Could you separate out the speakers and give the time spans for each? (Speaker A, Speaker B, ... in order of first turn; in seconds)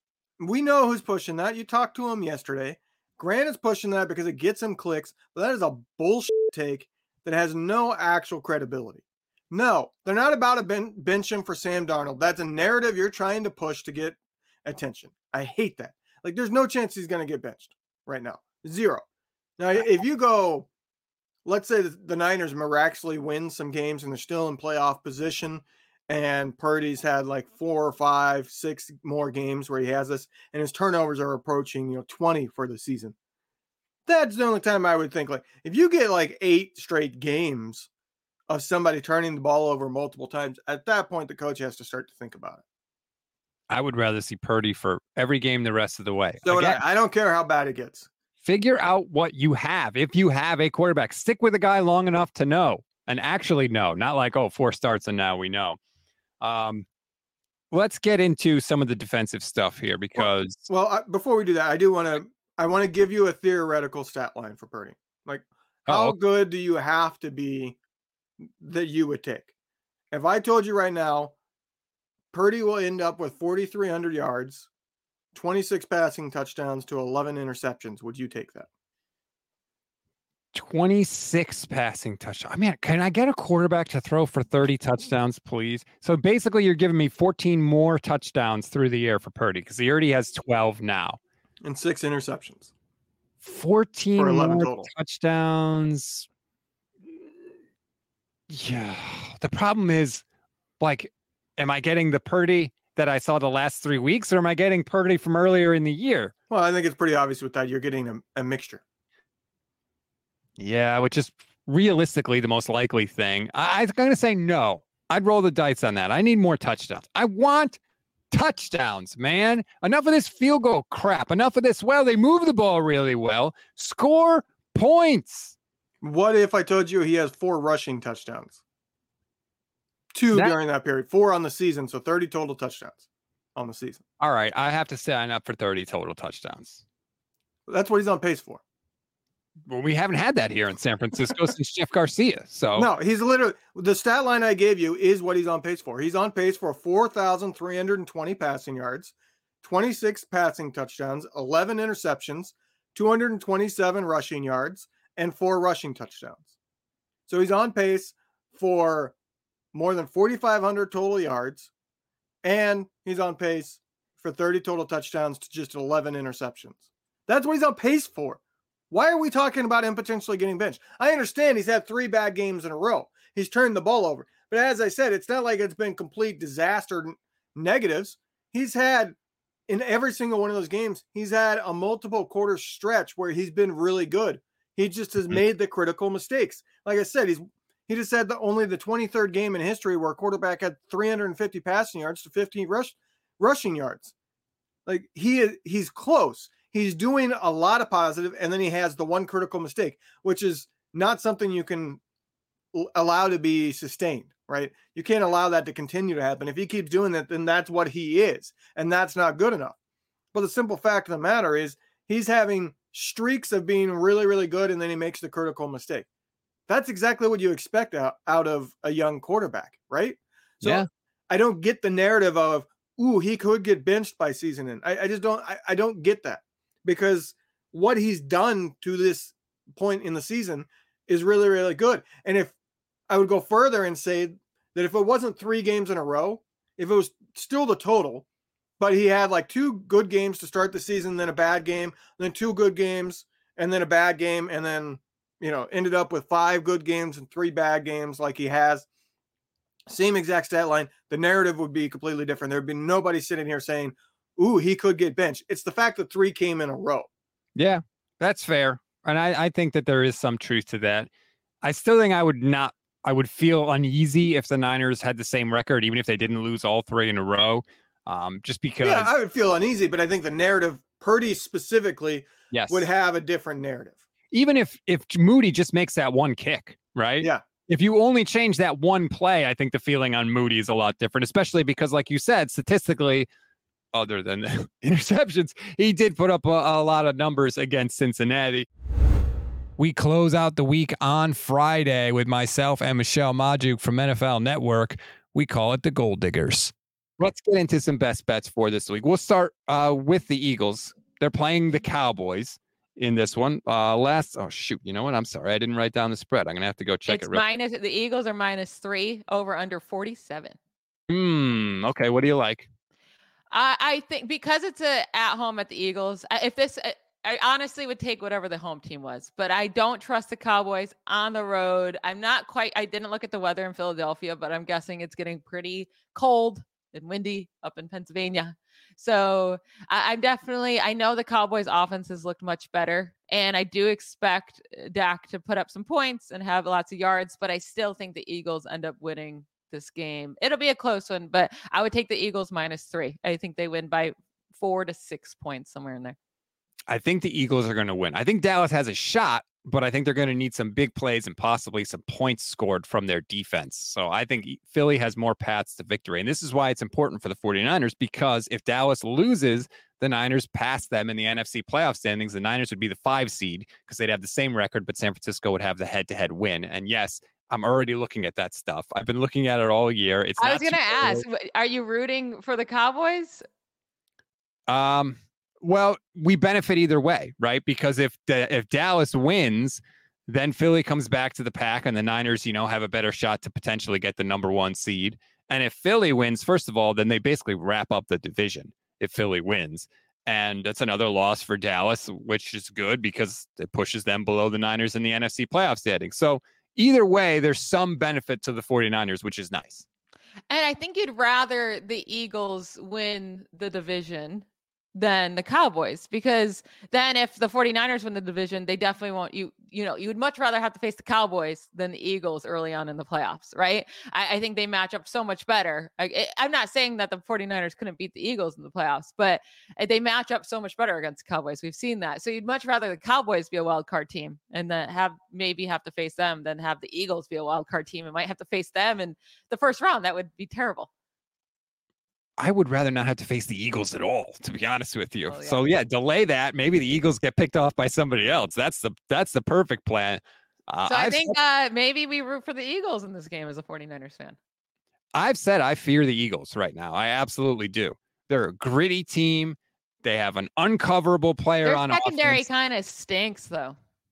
Speaker A: 0.4-19.0, 19.6-20.7, 21.4-33.1, 34.1-37.9, 38.5-42.6, 46.4-48.1, 60.2-67.8, 68.6-69.5, 70.1-71.3, 72.3-74.7, 75.3-78.7, 91.6-92.7, 94.2-94.9, 106.5-108.8, 126.0-128.6, 130.1-133.0, 133.6-134.0, 137.7-138.6, 142.7-156.5, 157.3-159.1, 159.7-161.7, 162.4-168.4, 168.9-179.2, 179.7-194.1, 194.8-202.0, 202.7-209.7, 210.3-216.1, 216.7-232.5, 233.1-238.2, 238.8-248.8, 249.9-257.1, 268.8-274.0
Speaker B: 43.7-46.8, 48.4-55.8, 56.4-56.8, 57.7-60.6, 65.9-66.2, 80.5-91.2, 93.4-96.2, 98.5-100.2, 100.8-106.3, 110.6-117.8, 118.3-125.5, 134.2-136.8, 139.7-142.9, 220.6-220.9, 257.6-261.1, 261.6-269.1, 272.5-272.9, 274.3-283.3, 283.9-288.6, 289.8-307.4, 311.1-312.7, 346.9-371.3, 374.7-399.8, 432.4-441.4, 445.1-452.5
Speaker C: 307.1-310.6, 313.5-346.1, 370.4-373.4, 400.5-430.9, 435.3-435.6, 440.9-444.4, 451.6-453.8